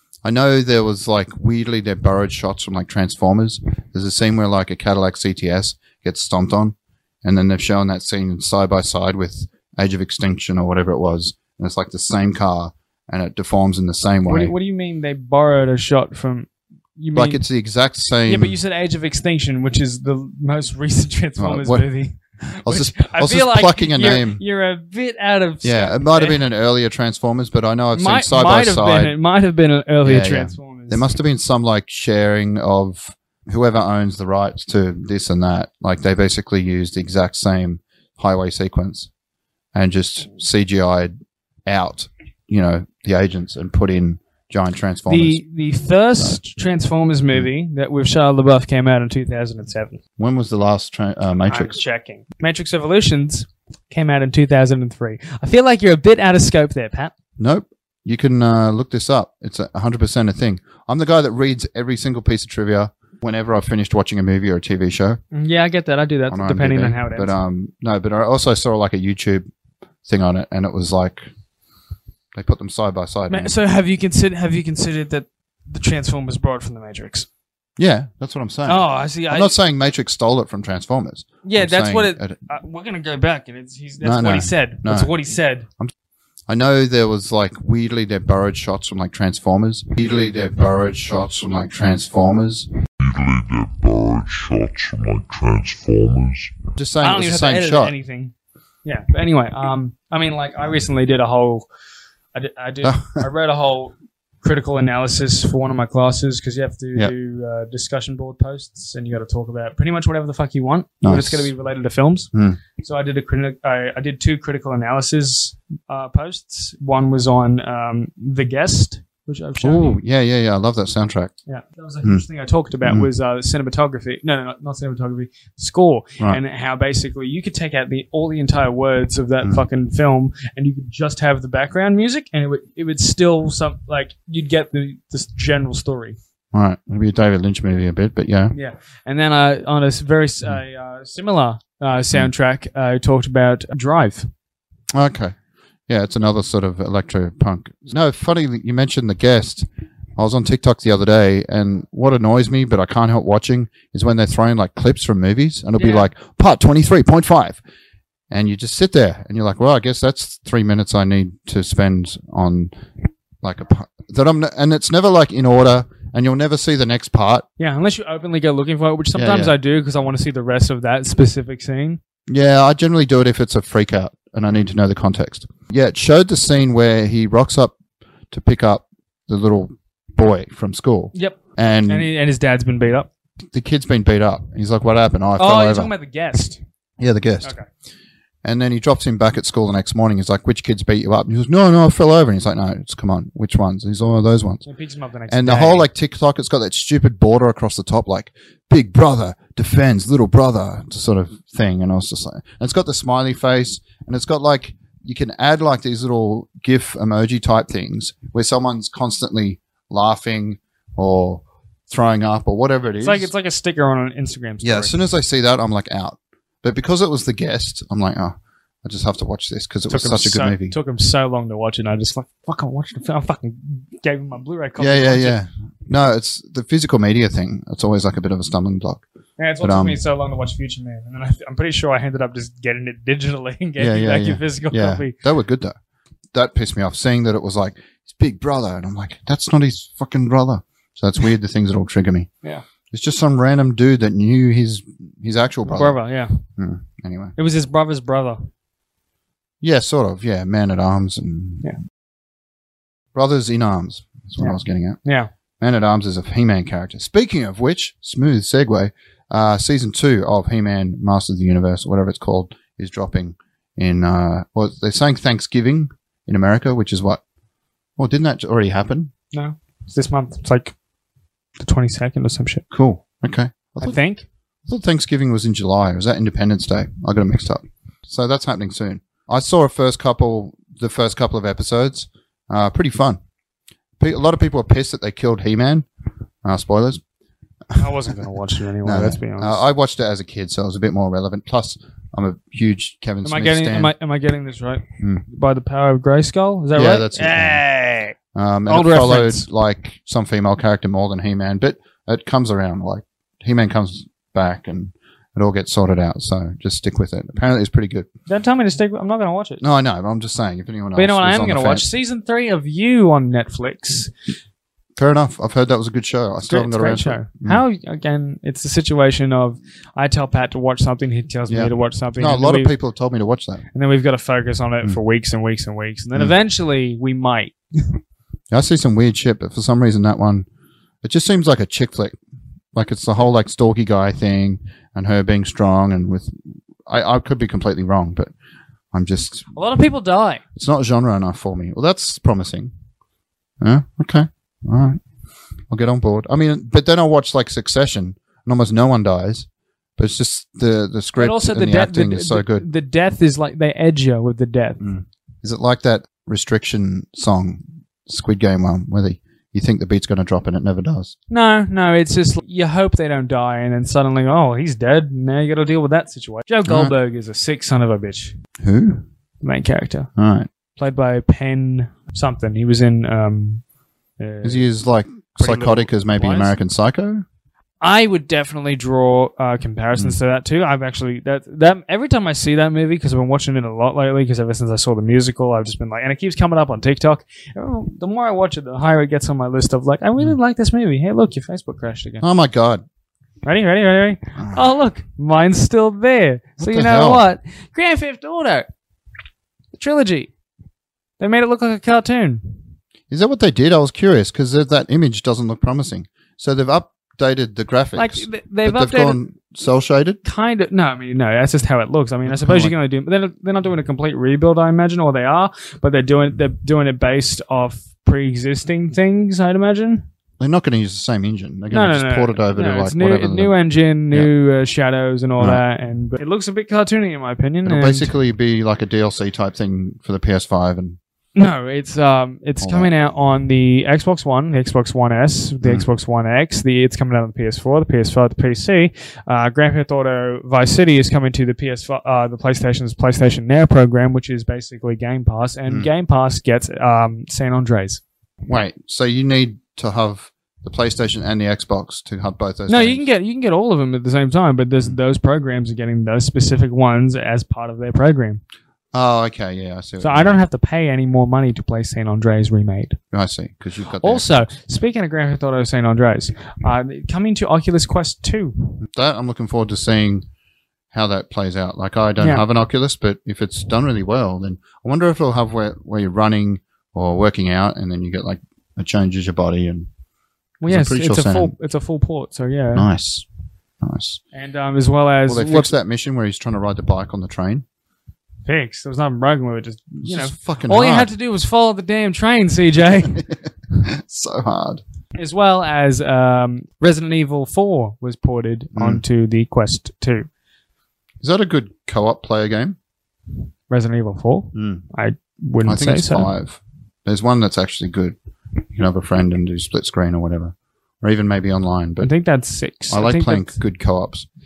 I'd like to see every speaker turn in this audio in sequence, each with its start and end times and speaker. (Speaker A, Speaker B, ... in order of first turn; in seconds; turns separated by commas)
Speaker A: 0.2-14.5, Speaker B: 14.2-17.4, Speaker A: 17.1-18.6, Speaker B: 18.3-26.4, Speaker A: 21.4-21.9, Speaker A: 22.5-24.4, Speaker A: 25.6-29.1, Speaker B: 27.9-31.0, Speaker A: 30.0-39.1, Speaker A: 39.7-41.1, Speaker A: 41.6-45.4, Speaker B: 45.1-50.0, Speaker A: 50.2-51.8, Speaker B: 51.5-57.1, Speaker A: 57.4-65.2, Speaker B: 65.3-67.3, Speaker A: 66.3-69.4, Speaker A: 70.0-71.3, Speaker A: 72.3-73.5, Speaker B: 73.3-77.3, Speaker A: 77.8-82.3, Speaker B: 78.7-79.5, Speaker B: 81.4-85.7, Speaker A: 84.0-85.1, Speaker A: 86.5-92.7, Speaker C: 93.0-96.5, Speaker A: 96.7-97.9, Speaker B: 97.0-98.3, Speaker B: 98.8-101.6, Speaker B: 102.3-119.9, Speaker A: 102.8-103.2, Speaker A: 111.0-111.5, Speaker A: 112.3-112.6, Speaker A: 119.6-121.3, Speaker B: 121.5-136.2, Speaker A: 136.5-138.5, Speaker B: 138.5-144.3, Speaker A: 144.9-145.3, Speaker A: 145.9-157.6, Speaker B: 155.8-156.1, Speaker A: 158.3-162.7, Speaker A: 163.4-167.4, Speaker B: 167.6-172.0, Speaker A: 169.1-169.5, Speaker A: 172.3-177.8, Speaker A: 178.3-182.1, Speaker B: 181.1-183.1, Speaker A: 183.5-185.9, Speaker B: 185.4-186.6, Speaker A: 187.0-187.5, Speaker A: 188.4-194.6, Speaker B: 194.7-195.9, Speaker A: 195.3-213.3, Speaker B: 213.0-214.9, Speaker A: 214.6-220.8, Speaker B: 219.9-225.4, Speaker A: 224.8-229.0, Speaker B: 229.4-235.1, Speaker A: 229.6-230.0, Speaker A: 233.8-235.7, Speaker A: 236.3-242.3, Speaker A: 242.9-246.0, Speaker B: 245.6-246.4, Speaker A: 246.6-247.3, Speaker B: 247.4-248.4, Speaker A: 249.6-251.7, Speaker A: 253.1-255.0, Speaker B: 254.4-255.3, Speaker A: 255.6-267.2, Speaker A: 268.0-269.1, Speaker B: 269.3-270.7, Speaker B: 271.6-272.6, Speaker A: 272.7-274.0, Speaker B: 273.8-274.2, Speaker A: 274.7-283.2, Speaker A: 284.0-285.9, Speaker A: 286.4-287.0, Speaker B: 287.7-289.6, Speaker A: 288.8-293.9, Speaker B: 293.2-298.1, Speaker A: 296.7-297.6, Speaker A: 298.3-308.1, Speaker B: 298.7-299.5, Speaker B: 308.3-309.6, Speaker A: 309.6-311.8, Speaker B: 310.9-314.1, Speaker A: 315.0-317.6, Speaker B: 316.5-322.7, Speaker A: 321.5-323.6, Speaker B: 323.7-328.0, Speaker A: 328.5-330.4, Speaker A: 331.0-332.2, Speaker A: 332.7-338.3, Speaker A: 338.9-339.5, Speaker B: 339.5-340.4, Speaker A: 340.6-342.7, Speaker A: 343.6-345.0, Speaker A: 345.7-352.6, Speaker B: 351.2-354.8, Speaker A: 354.8-361.1, Speaker B: 361.3-368.3, Speaker A: 366.7-366.9, Speaker A: 368.6-369.0, Speaker B: 369.4-370.1, Speaker A: 370.2-370.5, Speaker B: 370.8-373.6, Speaker B: 374.2-374.7, Speaker A: 374.4-377.2, Speaker B: 375.4-376.5, Speaker B: 377.8-392.2, Speaker A: 392.2-392.8, Speaker B: 393.4-398.7, Speaker A: 396.6-397.3, Speaker B: 399.7-400.3, Speaker B: 401.2-402.6, Speaker A: 403.1-410.2, Speaker B: 407.9-409.2, Speaker B: 410.2-420.1, Speaker A: 412.2-412.7, Speaker A: 420.4-423.5, Speaker B: 421.7-428.1, Speaker A: 427.6-431.0, Speaker B: 431.4-448.0, Speaker A: 432.6-432.9, Speaker A: 448.4-453.1, Speaker B: 452.7-458.4, Speaker A: 458.9-460.4, Speaker B: 460.0-463.0, Speaker A: 463.1-464.5, Speaker B: 464.0-468.8, Speaker A: 468.8-470.2, Speaker A: 470.9-479.9, Speaker B: 480.6-482.9, Speaker A: 480.7-481.5, Speaker A: 482.7-483.2, Speaker A: 483.8-484.2, Speaker B: 484.3-485.7, Speaker A: 485.3-487.6, Speaker B: 488.4-493.3, Speaker A: 490.0-491.1, Speaker A: 493.1-494.8, Speaker B: 495.1-500.3, Speaker A: 498.7-499.0, Speaker A: 501.2-502.8, Speaker B: 503.7-506.3, Speaker A: 504.5-504.8, Speaker A: 505.6-508.2, Speaker A: 508.7-512.1, Speaker B: 512.0-513.6, Speaker A: 512.9-514.3